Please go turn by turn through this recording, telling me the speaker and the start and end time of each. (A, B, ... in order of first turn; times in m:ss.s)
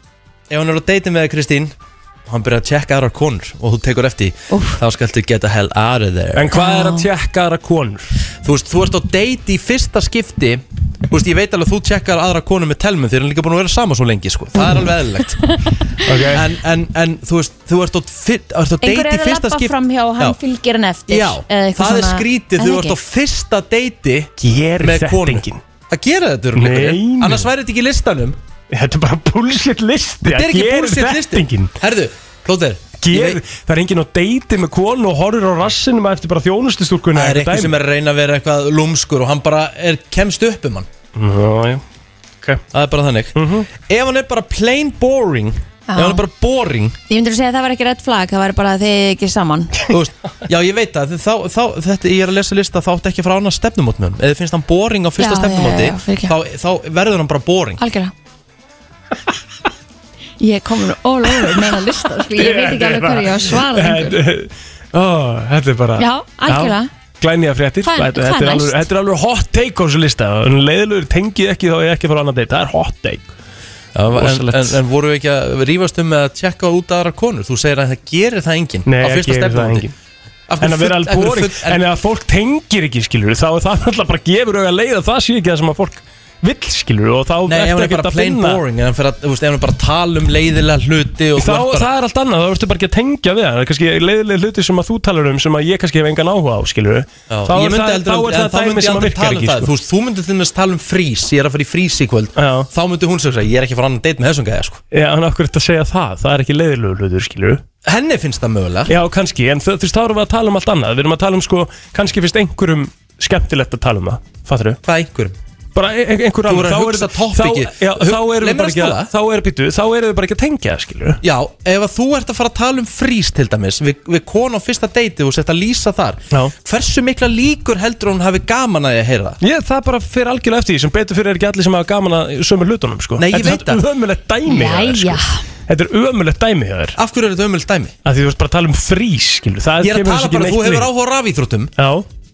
0:00.5-0:01.7 A
0:02.3-0:06.5 A
0:04.5-0:04.8 B
0:06.3-0:08.1 C
0:06.5-0:07.1 B
0:08.4-0:15.5 A
0:15.4-0:15.7 B
0:16.0-0:16.5 C
0:16.3-0:20.4 A
0:18.8-0:23.0 B
0:21.1-0:28.4 A
0:24.4-0:25.6 C
0:26.5-0:27.5 C
0:28.7-0:31.7 C
0:30.2-0:33.4 A
0:33.0-0:37.7 C
0:37.1-0:40.9 A
0:41.1-0:41.8 C
0:42.7-0:47.0 A
0:43.3-0:43.7 C
0:45.9-0:46.2 B
0:47.1-0:49.8 B
0:49.9-0:57.8 A
0:55.2-0:56.3 B
0:57.8-0:58.1 B
1:00.4-1:04.2 B
1:02.3-1:13.3 C
1:06.0-1:06.9 B
1:07.8-1:08.8 B
1:13.9-1:19.9 A
1:14.1-1:14.8 C
1:18.8-1:19.9 C
1:20.5-1:21.8 A
1:20.6-1:28.6 C
1:27.4-1:31.9 A
1:31.4-1:39.7 C
1:37.3-1:44.8 A
1:42.4-1:42.7 C
1:44.9-1:47.6 C
1:47.8-1:48.9 A
1:48.9-1:54.8 C
1:54.8-1:55.4 A
1:55.7-2:01.2 C
1:56.4-1:59.1 A
2:01.2-2:09.4 A
2:09.4-2:17.0 C
2:13.2-2:13.8 A
2:14.4-2:15.4 B
2:17.0-2:17.9 A
2:18.0-2:20.9 C
2:19.8-2:21.7 A
2:21.8-2:22.0 C